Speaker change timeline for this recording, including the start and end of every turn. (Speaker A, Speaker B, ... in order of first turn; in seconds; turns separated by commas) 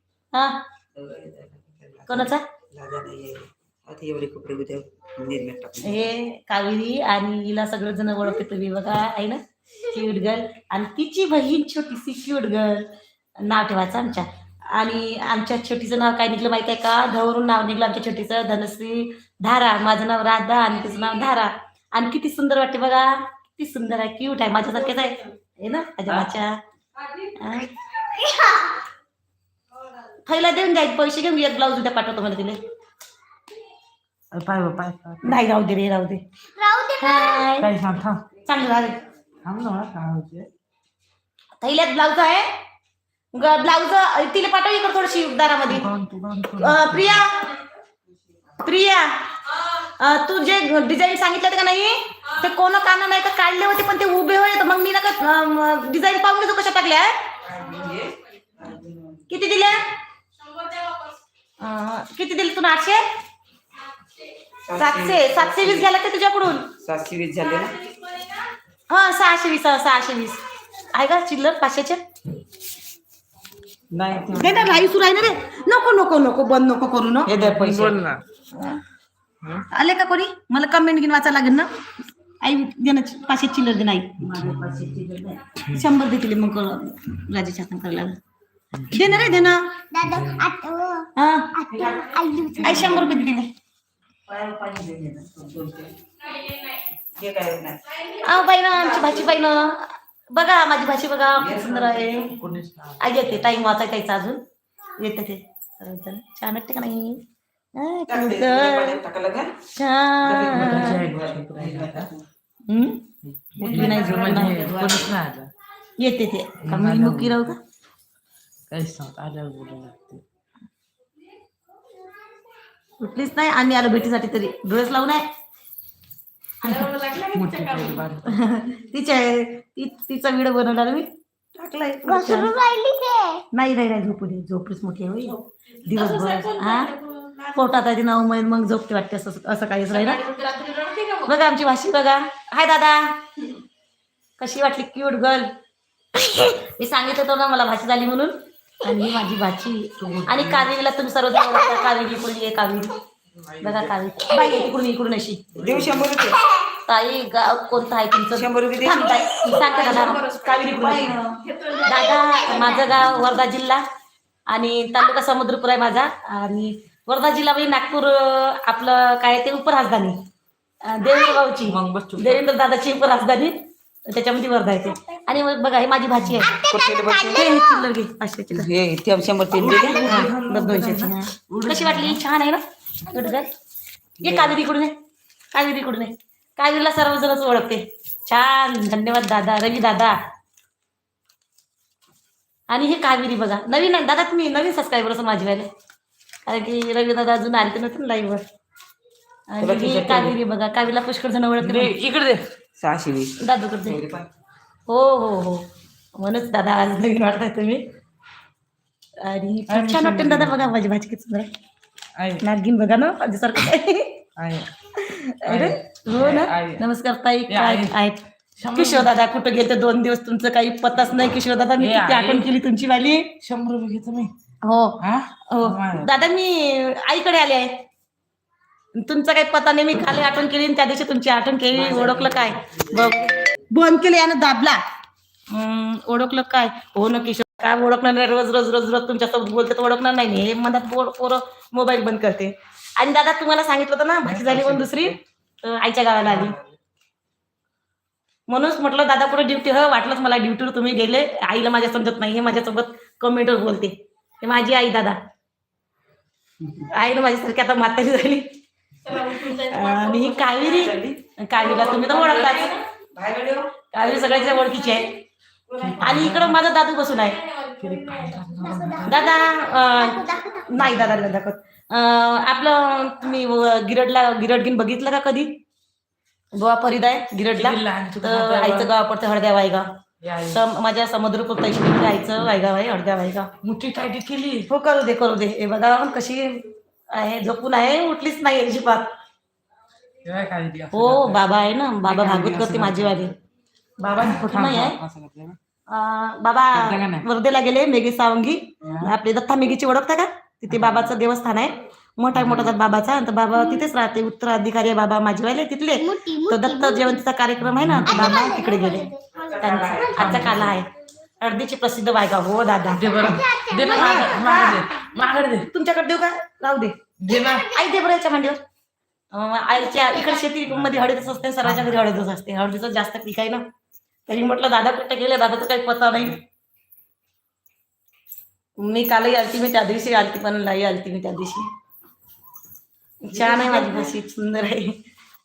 Speaker A: 0.3-0.6, Speaker B: 0.9-6.1, Speaker A: 2.1-2.4, Speaker A: 5.8-12.9, Speaker A: 13.4-26.6, Speaker C: 26.1-26.3, Speaker A: 27.3-27.7, Speaker D: 28.1-28.8, Speaker A: 30.2-32.6, Speaker C: 34.3-35.4, Speaker A: 35.2-36.2, Speaker D: 36.5-37.5, Speaker A: 37.0-37.7, Speaker C: 37.6-38.2, Speaker A: 38.4-39.0, Speaker C: 39.4-40.5, Speaker A: 41.6-42.5, Speaker A: 43.3-45.9, Speaker C: 45.7-47.2, Speaker A: 46.6-47.5, Speaker A: 48.6-57.3, Speaker B: 57.4-59.2, Speaker A: 59.3-59.9, Speaker A: 61.6-63.0, Speaker B: 64.6-65.9, Speaker A: 64.7-66.7, Speaker B: 66.8-67.8, Speaker A: 68.9-72.0, Speaker B: 73.9-74.9, Speaker A: 74.3-77.3, Speaker B: 77.2-78.1, Speaker C: 77.4-78.2, Speaker A: 78.5-78.8, Speaker A: 79.7-81.7, Speaker A: 82.4-84.3, Speaker B: 84.2-85.4, Speaker C: 84.3-85.1, Speaker A: 85.6-88.2, Speaker C: 88.8-89.5, Speaker A: 88.9-89.8, Speaker D: 89.9-92.8, Speaker C: 90.1-90.4, Speaker A: 91.1-91.9, Speaker A: 92.6-93.5, Speaker C: 92.8-93.1, Speaker B: 94.3-96.0, Speaker B: 97.1-97.8, Speaker A: 98.1-102.3, Speaker B: 101.3-102.2, Speaker C: 102.2-103.3, Speaker A: 103.0-104.4, Speaker A: 105.0-107.2, Speaker A: 107.7-109.0, Speaker B: 108.1-109.6, Speaker A: 109.7-111.1, Speaker B: 110.2-112.2, Speaker C: 110.5-112.1, Speaker A: 112.7-113.1, Speaker C: 113.3-115.5, Speaker B: 113.6-115.0, Speaker A: 113.6-115.0, Speaker A: 116.0-117.6, Speaker C: 116.6-117.4, Speaker C: 118.7-120.2, Speaker A: 123.0-125.3, Speaker A: 126.6-127.0, Speaker C: 126.7-128.5, Speaker A: 128.2-132.6, Speaker D: 132.1-133.4, Speaker A: 133.5-136.9, Speaker C: 135.8-137.5, Speaker A: 137.5-140.2, Speaker C: 139.9-141.2, Speaker A: 141.2-143.2, Speaker A: 144.4-145.5, Speaker A: 146.2-152.9, Speaker C: 150.0-150.7, Speaker C: 153.3-154.5, Speaker A: 153.6-155.4, Speaker C: 155.5-156.2, Speaker B: 155.6-156.4, Speaker A: 156.8-161.2, Speaker B: 158.3-159.2, Speaker C: 160.0-161.7, Speaker B: 160.8-161.1, Speaker A: 161.8-163.8, Speaker D: 162.1-162.7, Speaker A: 164.5-170.2, Speaker A: 170.8-176.6, Speaker C: 171.6-172.4, Speaker D: 176.4-177.8, Speaker B: 176.5-177.5, Speaker A: 177.3-178.7, Speaker B: 178.5-180.3, Speaker C: 179.5-182.2, Speaker A: 180.0-183.5, Speaker B: 184.2-184.6, Speaker A: 184.2-184.9, Speaker A: 185.5-190.2, Speaker A: 192.7-195.7, Speaker A: 196.4-198.4, Speaker A: 199.5-201.9, Speaker B: 199.6-200.3, Speaker C: 201.6-202.4, Speaker B: 202.8-204.3, Speaker A: 203.4-204.0, Speaker A: 204.9-207.8, Speaker A: 209.2-211.5, Speaker C: 209.7-210.7, Speaker C: 212.2-212.4, Speaker A: 212.4-214.2, Speaker C: 214.4-214.7, Speaker A: 214.9-218.2, Speaker C: 215.4-216.8, Speaker C: 217.5-217.9, Speaker C: 218.6-219.1, Speaker A: 218.7-223.3, Speaker C: 221.8-222.5, Speaker C: 223.4-224.3, Speaker A: 224.6-227.7, Speaker C: 225.0-226.2, Speaker A: 229.0-234.8, Speaker C: 231.7-232.8, Speaker A: 235.5-246.6, Speaker B: 244.3-245.1, Speaker B: 246.3-246.8, Speaker A: 248.5-255.2, Speaker B: 256.6-256.9, Speaker A: 256.9-258.5, Speaker A: 259.1-262.8, Speaker B: 260.7-263.9, Speaker C: 262.1-262.6, Speaker A: 263.9-265.1, Speaker B: 265.7-266.4, Speaker C: 265.8-266.6, Speaker A: 266.0-267.4, Speaker C: 267.7-269.3, Speaker D: 268.6-270.7, Speaker A: 269.0-275.6, Speaker C: 270.8-271.3, Speaker A: 276.5-279.9, Speaker C: 277.5-278.9, Speaker C: 280.2-280.6, Speaker A: 280.4-283.5, Speaker C: 283.6-284.7, Speaker A: 284.7-289.1, Speaker C: 290.2-291.4, Speaker A: 290.9-293.3, Speaker C: 292.0-293.3, Speaker C: 294.0-295.6, Speaker A: 294.1-295.0, Speaker A: 295.9-309.1, Speaker C: 296.7-297.2, Speaker C: 298.8-299.1, Speaker C: 300.7-301.1, Speaker C: 302.3-302.7, Speaker D: 303.6-303.9, Speaker D: 306.0-307.2, Speaker C: 307.6-308.4, Speaker D: 308.0-310.4, Speaker B: 309.3-310.8, Speaker A: 309.6-310.9, Speaker C: 310.0-310.8, Speaker A: 311.4-314.8, Speaker C: 312.9-315.7, Speaker D: 313.2-314.7, Speaker A: 315.7-316.9, Speaker C: 317.2-317.7, Speaker A: 317.6-318.6, Speaker A: 319.3-323.6, Speaker D: 320.0-320.4, Speaker C: 320.8-322.0, Speaker A: 324.3-326.4, Speaker A: 328.8-331.7, Speaker A: 333.2-335.0, Speaker B: 333.5-334.1